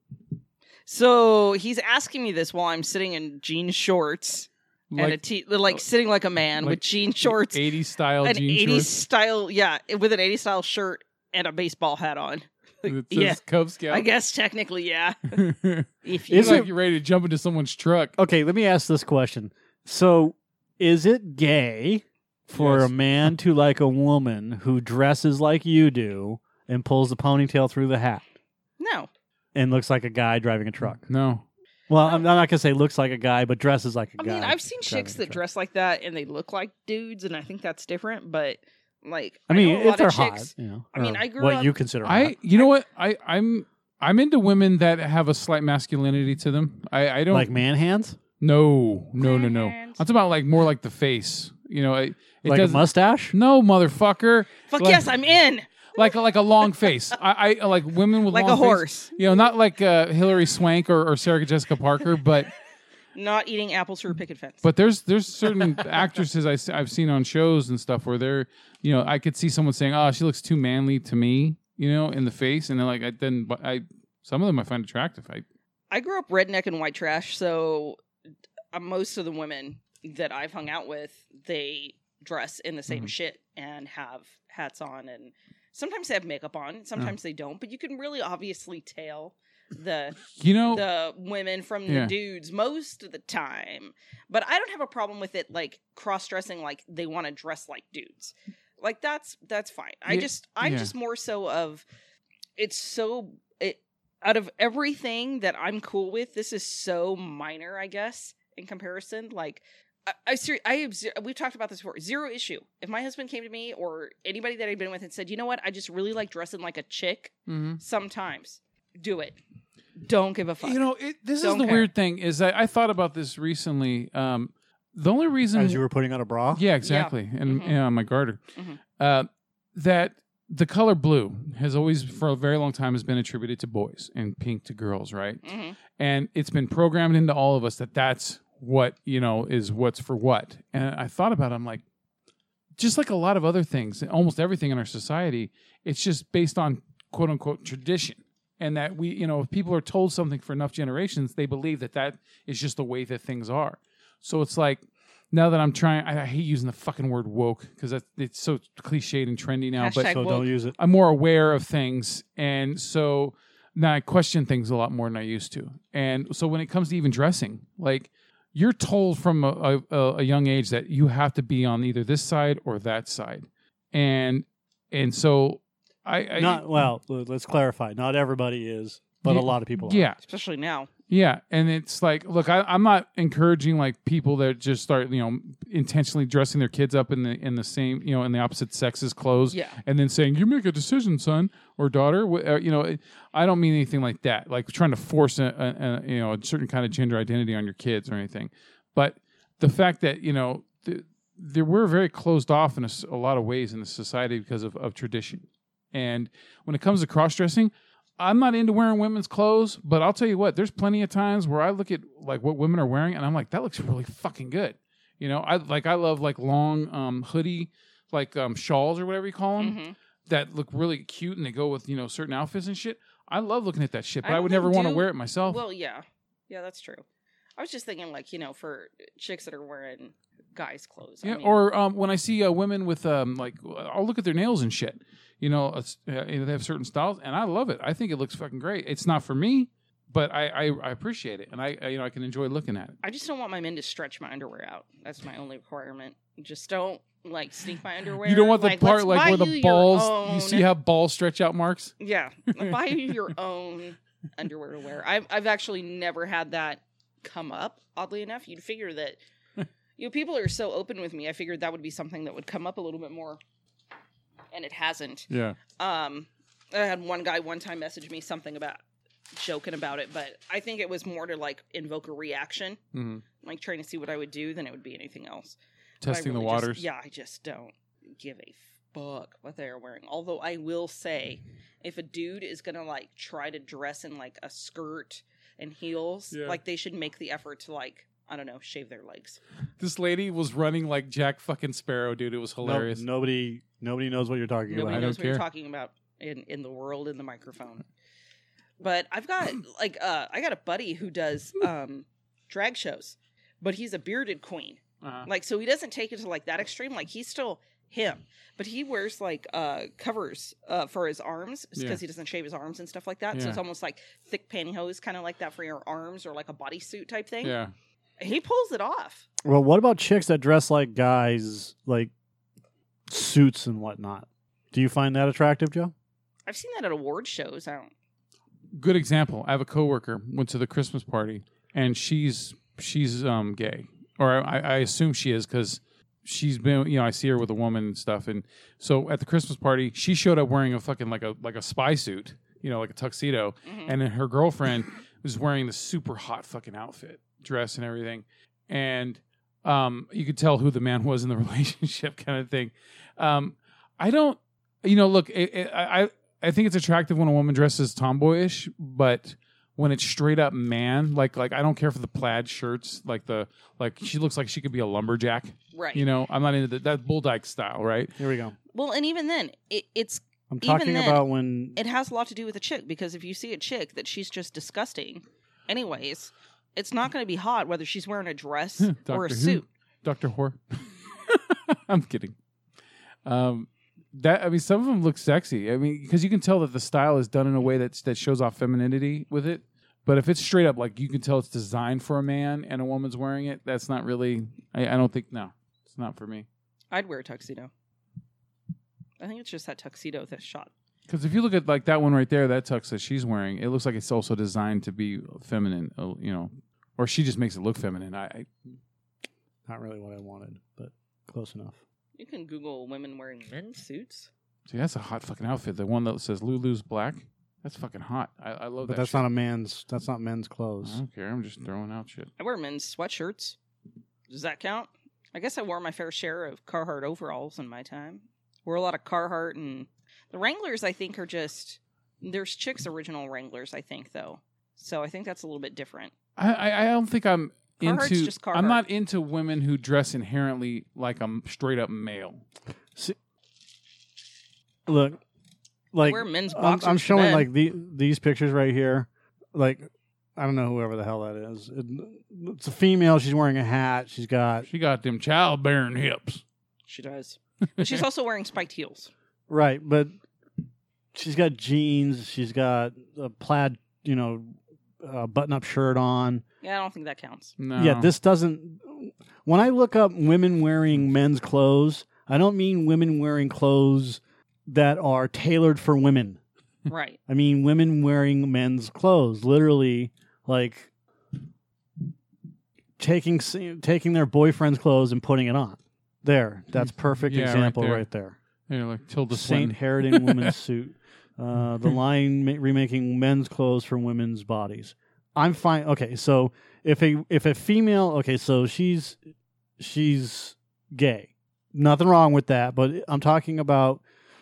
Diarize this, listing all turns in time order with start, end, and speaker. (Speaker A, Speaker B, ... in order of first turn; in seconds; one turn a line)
Speaker A: 0.9-7.7
Speaker B: 4.9-5.8
Speaker B: 6.6-9.0
Speaker A: 8.2-15.4
Speaker B: 12.9-14.1
Speaker B: 15.3-18.1
Speaker A: 16.0-16.6
Speaker C: 16.3-16.7
Speaker C: 18.2-28.2
Speaker B: 22.6-22.9
Speaker A: 28.8-29.1
Speaker C: 29.6-31.0
Speaker B: 30.8-31.4
Speaker C: 31.9-35.4
Speaker A: 34.2-41.8
Speaker C: 39.5-42.4
Speaker B: 42.0-47.5
Speaker C: 47.3-48.2
Speaker B: 48.4-55.1
Speaker A: 49.2-50.0
Speaker C: 52.5-53.4
Speaker A: 54.7-56.9
Speaker B: 56.0-62.5
Speaker A: 58.2-59.1
Speaker A: 63.1-64.7
Speaker B: 64.6-75.5
Speaker A: 75.9-78.0
Speaker A: 78.7-101.8
Speaker B: 90.3-90.8
Speaker B: 91.9-92.2
Speaker B: 100.1-100.9
Speaker A: 102.6-119.4
Speaker B: 117.5-117.8
Speaker A: 120.0-120.8
Speaker B: 120.6-125.8
Speaker A: 121.4-121.9
Speaker C: 125.5-126.7
Speaker B: 126.5-128.4
Speaker A: 126.8-127.8
Speaker A: 128.6-128.8
Speaker B: 129.0-135.4
Speaker A: 135.4-135.8
Speaker B: 135.9-141.8
Speaker B: 142.8-176.7
Speaker A: 159.8-160.5
Speaker C: 160.1-160.8
Speaker C: 176.4-180.1
Speaker B: 179.2-180.2
Speaker A: 180.3-180.9
Speaker B: 181.1-225.6
Speaker A: 189.5-189.8
Speaker A: 219.6-219.9
Speaker A: 224.2-227.0
Speaker A: 227.6-231.6
Speaker B: 231.2-243.0
Speaker A: 243.0-250.7
Speaker B: 248.2-251.9
Speaker A: 252.0-259.2
Speaker B: 252.5-253.1
Speaker A: 260.0-263.4
Speaker A: 264.5-268.8
Speaker B: 265.3-265.6
Speaker A: 269.4-272.8
Speaker B: 272.9-273.2
Speaker A: 273.4-289.4
Speaker B: 276.0-276.8
Speaker B: 286.3-286.6
Speaker B: 289.8-293.1
Speaker C: 292.6-295.1
Speaker A: 294.7-297.9
Speaker B: 294.9-295.4
Speaker A: 298.8-317.6
Speaker B: 305.0-305.3
Speaker B: 311.8-312.0
Speaker B: 313.3-313.6
Speaker B: 317.4-317.7
Speaker A: 318.2-319.2
Speaker C: 319.4-322.1
Speaker C: 323.1-325.9
Speaker A: 326.5-327.9
Speaker B: 328.7-368.2
Speaker A: 343.7-344.0
Speaker A: 365.7-366.1
Speaker C: 368.2-368.6
Speaker A: 368.7-379.7
Speaker C: 370.5-371.8
Speaker B: 378.8-382.4
Speaker B: 383.2-396.5
Speaker A: 396.9-397.7
Speaker A: 399.2-400.7
Speaker B: 401.1-408.5
Speaker C: 409.7-411.8
Speaker A: 412.2-414.3
Speaker B: 414.7-419.2
Speaker C: 418.9-421.0
Speaker B: 420.8-422.3
Speaker A: 422.4-423.6
Speaker A: 424.3-436.1
Speaker B: 436.4-442.4
Speaker A: 437.8-438.8
Speaker C: 444.9-445.2
Speaker C: 445.9-454.7
Speaker A: 446.0-447.5
Speaker B: 454.7-456.4
Speaker A: 456.9-459.1
Speaker B: 457.8-458.1
Speaker C: 459.5-460.1
Speaker C: 461.1-466.4
Speaker A: 466.6-467.6
Speaker B: 467.6-468.1
Speaker C: 467.8-476.4
Speaker A: 476.9-477.2
Speaker C: 477.3-480.9
Speaker C: 483.0-488.4
Speaker B: 486.8-488.0
Speaker B: 488.7-490.6
Speaker C: 489.3-499.2
Speaker C: 499.8-504.0